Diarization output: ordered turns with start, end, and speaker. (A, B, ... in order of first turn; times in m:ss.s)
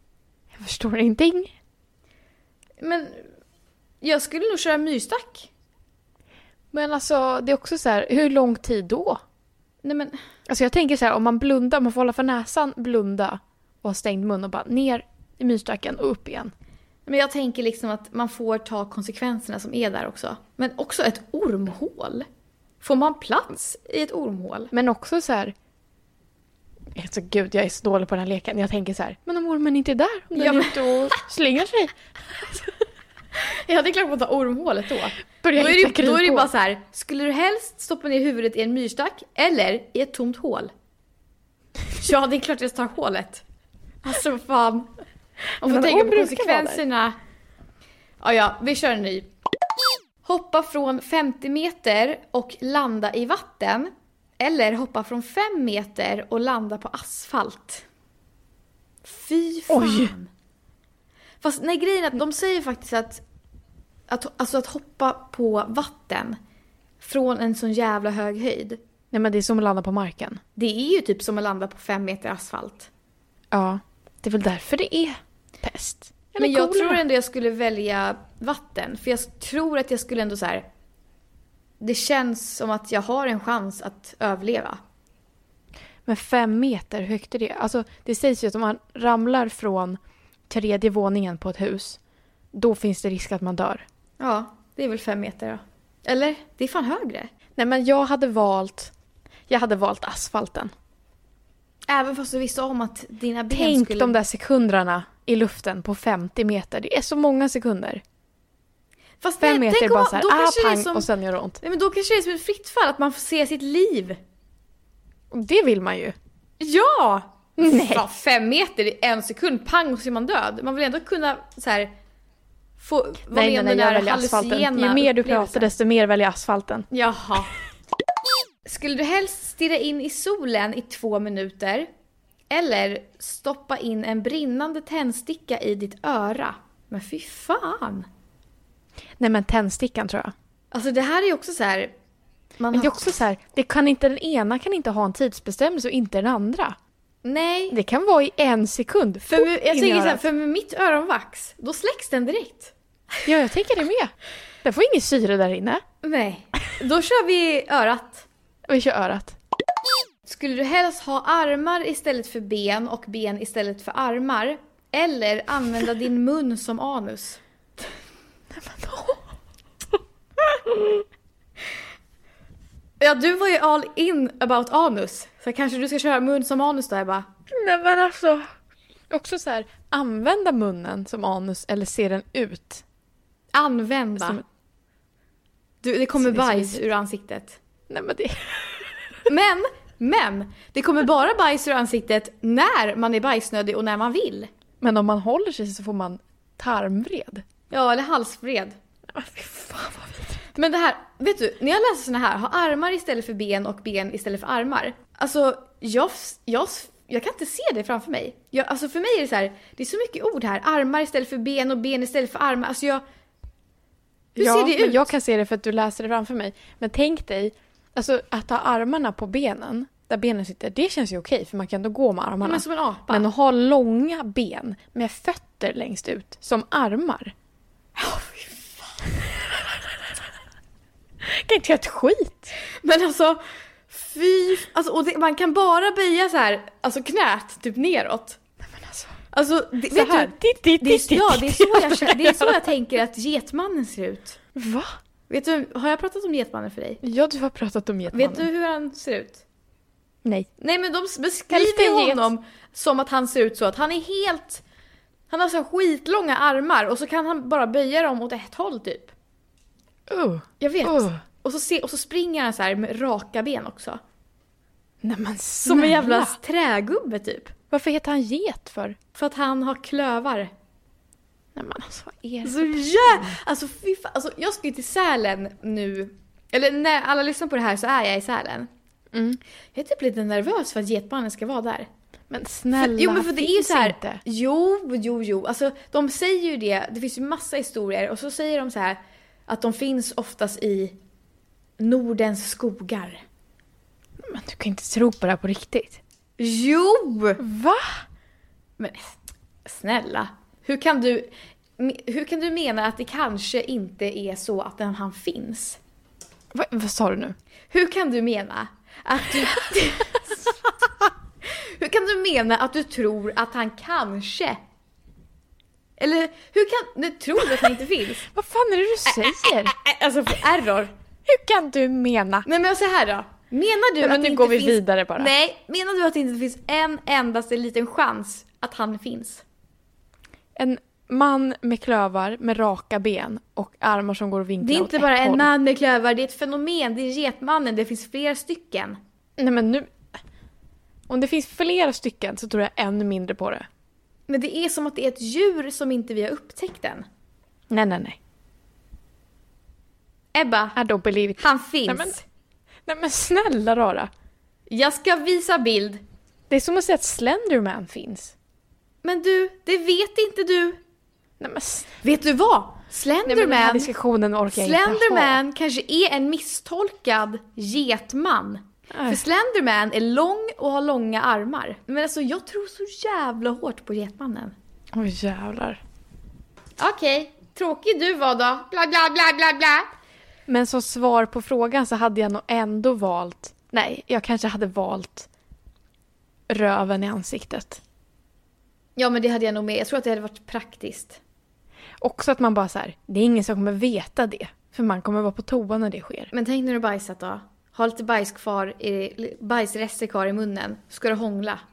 0:00.5-0:01.5 A
0:02.8-0:03.2 B
0:04.0-0:05.5 B
0:06.7-0:09.2 A
0:09.8-0:10.2 B
0:10.5-0:16.5 A
0:17.0-0:22.3 B
0:22.8-0:24.7 B
0:24.7-0:25.5 A
0:26.9-0:32.6 A
0:30.3-0:31.0 B
0:33.3-0:40.7 B
0:35.4-0:36.5 A
0:41.9-0:43.4 B
0:44.0-0:44.9 B
0:45.6-0:47.2 B
0:45.6-0:46.8 A
0:48.2-0:49.3 B
0:50.2-0:57.8 B
0:59.0-1:00.3 B
0:59.7-1:00.1 A
1:01.4-1:03.2 B
1:04.1-1:06.4 B
1:07.0-1:08.8 B
1:09.1-1:10.4 A
1:10.6-1:12.9 B
1:13.5-1:17.0 A
1:16.4-1:20.6 B
1:21.8-1:24.8 B
1:26.0-1:32.0 A
1:32.5-1:33.8 A
1:34.2-1:37.3 B
1:37.6-1:38.9 A
1:39.5-1:40.7 A
1:41.9-1:44.1 B
1:43.5-1:48.0 A
1:49.2-1:51.1 B
1:49.4-1:51.6 A
1:51.6-1:54.2 B
1:55.3-1:56.2 A
1:56.6-2:01.9 B
1:57.6-1:58.0 A
2:02.8-2:05.7 B
2:03.3-2:06.9 A
2:06.9-2:07.6 B
2:08.6-2:11.9 B
2:12.5-2:18.1 B
2:19.2-2:20.3 A
2:20.7-2:21.9 B
2:22.6-2:23.0 B
2:22.7-2:26.8 A
2:27.2-2:27.8 B
2:27.7-2:30.2 A
2:29.2-2:33.1 B
2:33.2-2:35.8 A
2:36.0-2:38.2 B
2:38.7-2:39.4 A
2:40.2-2:47.4 B
2:48.5-2:49.2 A
2:53.0-2:57.3 B
2:57.5-2:58.5 A
2:59.1-3:02.8 A
3:03.5-3:04.4 B
3:04.2-3:04.4 A
3:05.8-3:07.6 B
3:06.2-3:06.8 A
3:07.9-3:09.1 A
3:09.3-3:14.5 B
3:14.8-3:17.4 A
3:17.7-3:18.7 B
3:19.1-3:20.4 A
3:20.5-3:33.0 B
3:34.3-3:35.1 B
3:34.4-3:47.3 A
3:42.4-3:43.2 B
3:48.0-3:49.1 B
3:51.2-3:52.5 A
3:52.8-3:58.4 B
3:58.6-3:59.2 A
3:59.3-4:04.4 B
3:59.9-4:02.7 A
4:04.5-4:05.0 A
4:05.3-4:07.0 B
4:07.0-4:08.5 A
4:08.1-4:09.4 B
4:10.2-4:10.5 A
4:10.6-4:14.6 B
4:11.5-4:12.3 A
4:15.3-4:19.1 B
4:20.1-4:21.2 A
4:20.6-4:24.0 B
4:25.0-4:26.4 A
4:25.6-4:27.5 B
4:27.7-4:29.0 A
4:29.1-4:30.5 B
4:31.5-4:33.4 A
4:32.4-4:38.7 B
4:39.1-4:39.4 A
4:39.7-4:41.9 B
4:42.3-4:44.2 A
4:42.8-4:51.0 B
4:51.8-4:53.2 B
4:54.2-4:56.0 A
4:56.4-4:57.4 B
4:57.4-4:58.0 A
4:58.8-5:05.8 B
5:06.5-5:07.4 A
5:07.7-5:10.7 B
5:11.4-5:14.6 B
5:16.0-5:18.2 B
5:17.4-5:17.7 A
5:18.2-5:19.7 A
5:19.1-5:20.9 B
5:21.2-5:22.5 A
5:22.4-5:29.4 B
5:24.0-5:25.3 A
5:30.6-5:35.5 A
5:34.6-5:39.0 B
5:39.4-5:39.9 A
5:41.1-5:43.7 A
5:44.3-5:47.0 B
5:47.7-5:48.2 A
5:50.3-5:50.8 B
5:50.7-5:52.2 A
5:51.4-5:52.2 B
5:52.9-5:54.1 A
5:54.7-5:56.0 B
5:56.5-5:58.3 A
5:59.0-6:00.8 B
6:01.4-6:01.9 A
6:02.0-6:03.9 B
6:03.2-6:05.4 A
6:04.5-6:14.5 B
6:08.9-6:09.2 A
6:14.9-6:15.8 A
6:16.8-6:19.9 B
6:20.5-6:25.3 A
6:26.5-6:27.8 A
6:29.0-6:31.2 B
6:32.0-6:36.3 A
6:36.3-6:41.6 B